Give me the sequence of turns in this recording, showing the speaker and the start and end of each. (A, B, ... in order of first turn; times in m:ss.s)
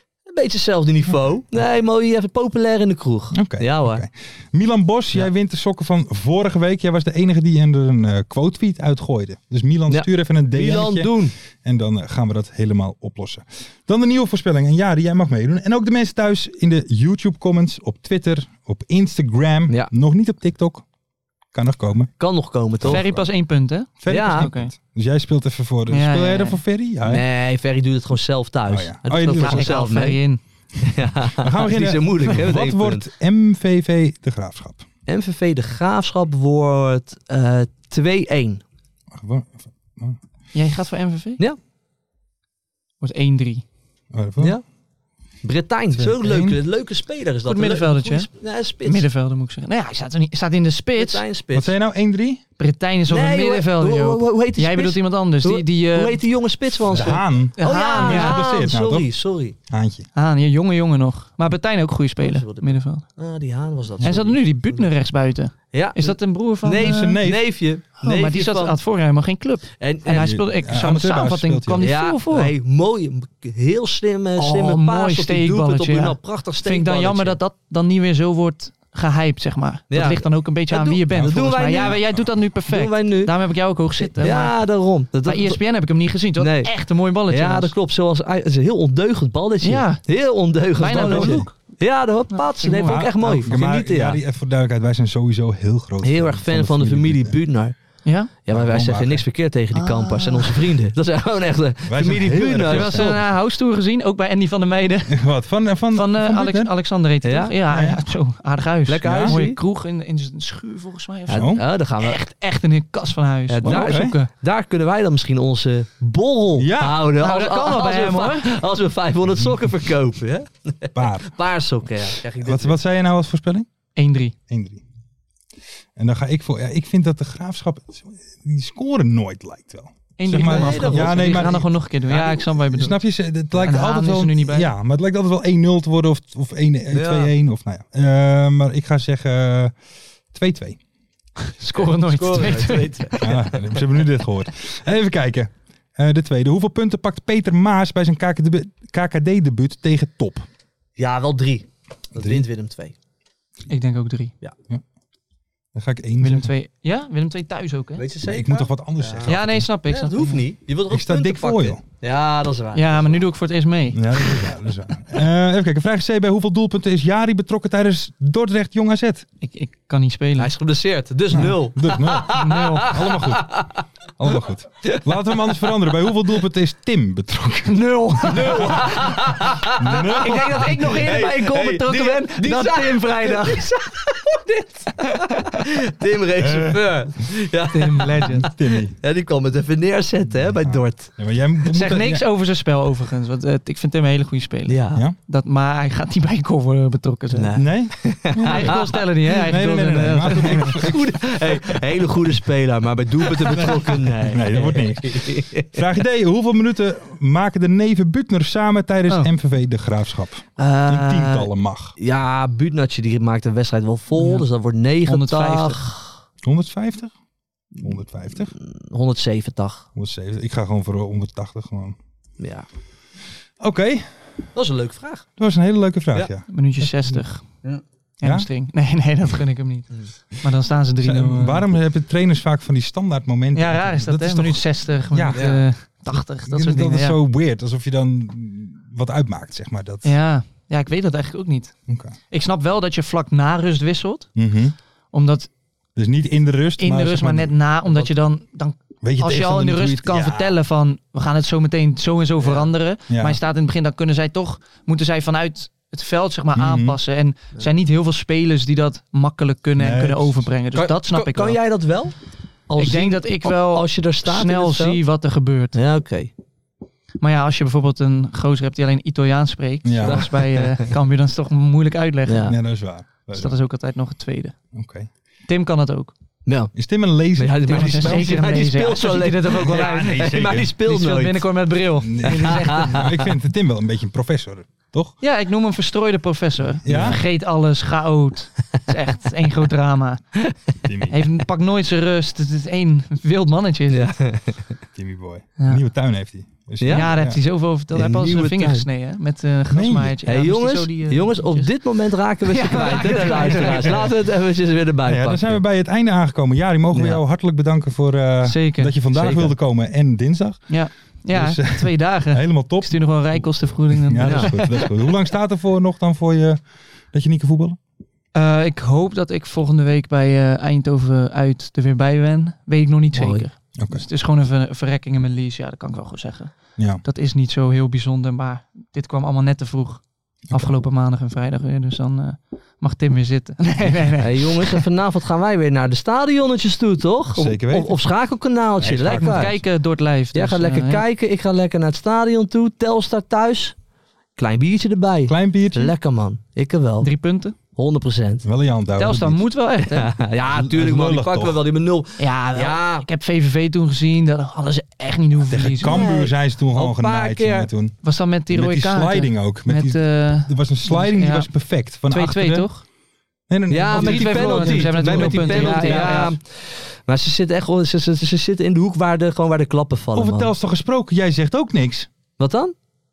0:00.3-0:04.0 A
0:03.3-0:20.8 B
0:09.9-0:11.3 A
0:21.5-0:22.1 B
0:22.2-0:23.0 A
0:22.8-0:23.2 B
0:22.9-0:24.7 C
0:24.0-0:27.2 B
0:24.1-0:24.5 A
0:25.9-0:26.6 C
0:27.1-0:30.2 A
0:28.7-0:29.8 B
0:29.3-0:30.4 C
0:30.8-0:33.1 A
0:31.4-0:34.8 B
0:35.1-0:38.6 A
0:39.1-0:40.2 B
0:40.5-0:41.4 C
0:43.0-0:43.6 C
0:44.1-0:44.6 B
0:45.4-0:49.1 A
0:45.9-0:46.6 B
0:47.4-0:48.3 C
0:48.8-0:51.2 C
0:51.0-0:51.7 A
0:51.5-0:52.4 B
0:52.6-0:56.3 C
0:53.1-0:59.6 A
0:56.9-0:59.1 B
0:57.6-0:58.6 C
0:59.7-1:00.0 B
1:00.2-1:03.0 C
1:02.2-1:04.8 A
1:04.0-1:07.2 C
1:05.7-1:08.8 A
1:06.8-1:07.4 B
1:08.0-1:12.5 C
1:09.8-1:10.3 A
1:10.1-1:11.9 B
1:11.8-1:17.4 A
1:14.4-1:24.6 C
1:19.9-1:22.0 A
1:21.1-1:22.3 B
1:22.7-1:23.3 A
1:24.0-1:25.6 A
1:25.2-1:27.7 C
1:26.4-1:26.7 A
1:27.3-1:34.2 A
1:29.6-1:30.0 C
1:30.8-1:31.5 C
1:30.9-1:31.5 B
1:32.3-1:33.1 C
1:32.8-1:37.4 B
1:36.0-1:37.7 A
1:38.0-1:38.3 C
1:38.4-1:43.2 A
1:38.5-1:39.2 B
1:39.7-1:40.7 C
1:41.9-1:43.2 B
1:42.7-1:45.2 C
1:45.1-1:46.7 B
1:45.9-1:54.3 C
1:47.2-1:47.5 A
1:47.7-1:48.0 B
1:48.9-1:49.6 A
1:49.0-1:49.4 B
1:51.3-1:52.2 A
1:51.4-1:51.6 B
1:53.5-2:02.8 A
1:53.6-1:54.2 B
1:56.6-1:57.0 B
1:57.2-1:58.6 C
2:00.9-2:01.4 B
2:02.4-2:03.7 B
2:04.0-2:04.3 C
2:04.5-2:04.8 B
2:06.0-2:19.7 B
2:10.2-2:13.0 C
2:10.3-2:12.3 A
2:13.6-2:14.7 C
2:16.9-2:17.3 A
2:20.3-2:20.8 B
2:21.4-2:23.2 C
2:21.7-2:23.8 A
2:23.2-2:30.4 B
2:31.0-2:32.9 A
2:32.2-2:32.4 B
2:33.7-2:34.3 C
2:35.7-2:36.5 B
2:36.2-2:38.0 C
2:38.0-2:43.2 A
2:38.2-2:39.7 B
2:39.3-2:40.4 C
2:40.9-2:41.8 B
2:42.7-2:44.4 C
2:43.9-2:49.2 B
2:49.4-2:50.5 C
2:50.4-2:53.8 A
2:51.3-2:53.6 B
2:52.3-2:53.0 C
2:54.2-3:01.0 B
2:57.7-2:59.0 C
2:58.3-3:11.1 A
3:00.2-3:03.7 C
3:06.4-3:07.0 B
3:07.7-3:08.5 C
3:08.4-3:08.9 B
3:10.6-3:12.2 B
3:11.7-3:17.6 C
3:14.7-3:15.0 A
3:17.3-3:18.7 A
3:17.6-3:21.8 B
3:18.4-3:20.8 C
3:20.6-3:25.7 A
3:23.3-3:31.9 B
3:30.6-3:36.1 A
3:34.1-3:34.4 C
3:35.0-3:35.8 C
3:36.4-3:37.1 B
3:37.8-3:38.5 B
3:38.5-3:39.9 A
3:40.0-3:42.0 B
3:42.4-3:42.6 A
3:43.6-3:44.1 B
3:44.5-3:45.2 A
3:45.4-3:47.2 B
3:46.5-3:47.4 C
3:48.2-3:51.6 C
3:51.0-3:55.4 B
3:53.5-3:57.2 C
3:55.3-3:55.6 A
3:56.4-4:00.1 B
4:00.0-4:01.7 C
4:01.9-4:02.1 B
4:02.3-4:04.3 C
4:04.4-4:04.7 B
4:05.1-4:05.5 C
4:06.0-4:07.5 B
4:06.8-4:21.6 C
4:09.0-4:10.6 B
4:13.1-4:13.4 B
4:16.5-4:17.0 B
4:19.8-4:20.4 B
4:20.7-4:22.1 A
4:22.7-4:25.0 A
4:22.8-4:25.8 C
4:25.7-4:26.3 A
4:27.2-4:32.6 C
4:29.8-4:30.3 B
4:30.0-4:30.9 A
4:32.3-4:32.5 A
4:32.5-4:33.6 B
4:33.3-4:34.6 C
4:34.7-4:35.1 B
4:35.5-4:36.1 C
4:36.4-4:36.7 A
4:36.7-4:38.3 B
4:37.4-4:41.4 A
4:37.7-4:43.2 C
4:39.6-4:40.7 B
4:42.0-4:45.1 B
4:42.3-4:43.0 A
4:45.2-4:50.4 C
4:46.8-4:47.2 B
4:50.8-4:51.3 B
4:51.1-4:54.3 C
4:53.9-4:54.6 A
4:55.0-4:57.4 B
4:56.8-4:57.1 A
4:56.9-5:01.7 C
4:57.9-4:58.8 A
4:59.7-5:00.2 B
5:00.2-5:05.6 A
5:02.4-5:04.1 C
5:03.1-5:04.1 B
5:05.0-5:10.8 B
5:08.4-5:08.9 C
5:09.1-5:09.5 A
5:10.7-5:14.9 C
5:11.3-5:16.6 B
5:14.2-5:14.5 A
5:17.1-5:17.8 B
5:18.3-5:34.8 C
5:23.1-5:23.4 A
5:23.8-5:24.0 B
5:34.2-5:39.6 A
5:37.3-5:38.0 B
5:38.8-5:39.6 B
5:39.1-5:41.0 C
5:40.3-5:43.7 A
5:44.4-5:47.1 A
5:45.3-5:45.9 B
5:47.0-5:47.5 C
5:47.7-5:48.4 A
5:48.4-5:49.4 B
5:49.0-5:50.2 C
5:49.8-5:53.1 A
5:50.5-5:51.6 B
5:52.2-5:56.1 C
5:55.4-5:58.0 B
5:55.8-5:57.7 A
5:58.0-6:02.8 C
5:58.5-6:02.7 B
6:03.5-6:06.3 B
6:03.7-6:10.5 A
6:03.9-6:06.4 C
6:10.1-6:12.1 B
6:12.4-6:12.7 A